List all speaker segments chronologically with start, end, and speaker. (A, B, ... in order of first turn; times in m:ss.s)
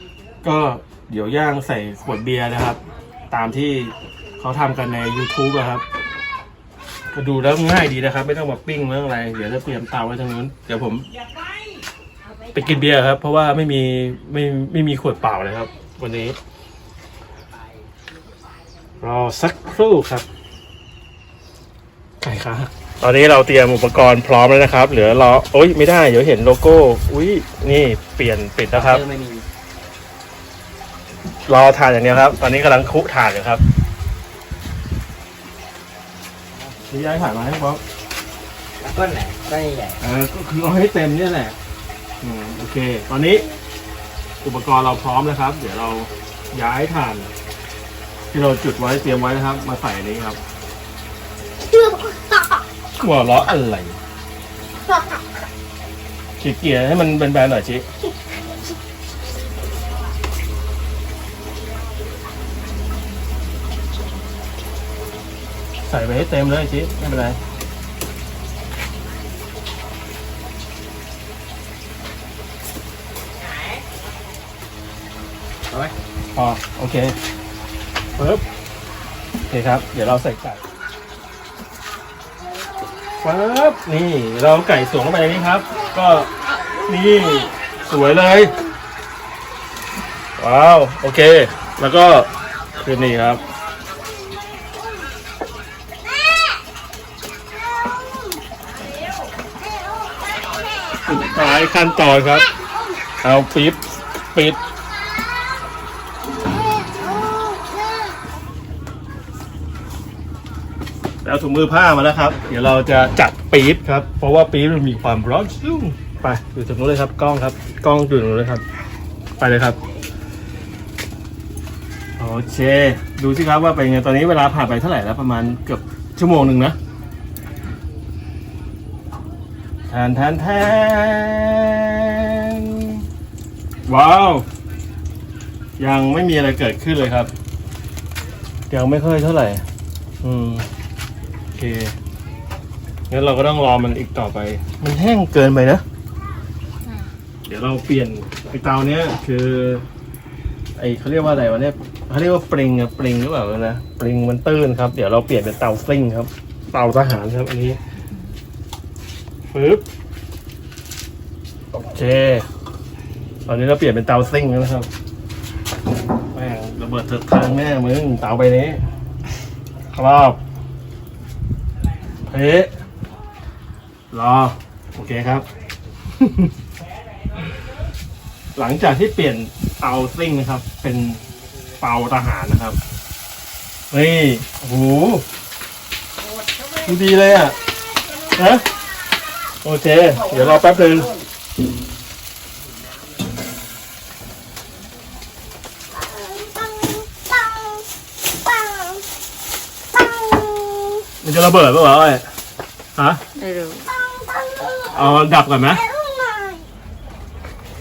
0:00.4-0:05.8 A
0:07.1-0:11.1 A
0:12.5-0:16.4 A
0:19.0-0:20.2 A
0:22.2-0:29.0 A
0:28.7-0:29.4 B
0:31.4-0:33.6 A
0:36.9-0:37.8 A
0:38.8-0:40.0 B
0:40.0-0:41.6 A
0:42.2-0:43.4 A
0:44.4-0:47.3 A
0:48.3-0:50.4 A
0:53.0-0:54.0 A
0:56.4-0:57.8 A
1:05.8-1:07.4 A
1:16.3-1:17.2 A
1:18.2-1:18.4 A
1:19.5-1:20.6 A
1:23.2-1:26.3 A
1:26.8-1:28.6 A
1:30.4-1:33.4 A
1:41.0-1:42.5 A
1:43.2-1:44.6 A
1:51.2-1:58.6 A
1:59.4-1:59.8 A
2:02.2-2:06.8 A
2:09.9-2:13.0 A
2:13.8-2:14.4 A
2:15.8-2:17.3 A
2:18.7-2:19.6 A
2:20.2-2:20.7 A
2:21.5-2:21.9 A
2:23.1-2:25.8 A
2:27.4-2:29.8 A
2:30.8-2:37.8 A
2:39.5-2:39.8 A
2:41.7-2:42.5 A
2:43.4-2:44.9 A
2:46.3-2:48.8 A
2:49.9-2:50.4 A
2:52.3-2:52.7 A
2:54.1-2:55.4 A
2:56.1-2:56.5 A
2:58.6-3:01.2 A
3:01.8-3:02.8 A
3:03.9-3:05.2 A
3:06.8-3:07.6 A
3:08.3-3:08.7 A
3:09.6-3:11.1 A
3:16.2-3:17.0 C
3:18.6-3:18.9 C
3:20.0-3:21.0 C
3:21.2-3:22.3 A
3:23.0-3:23.2 A
3:23.4-3:24.6 C
3:24.8-3:25.9 A
3:26.1-3:26.6 C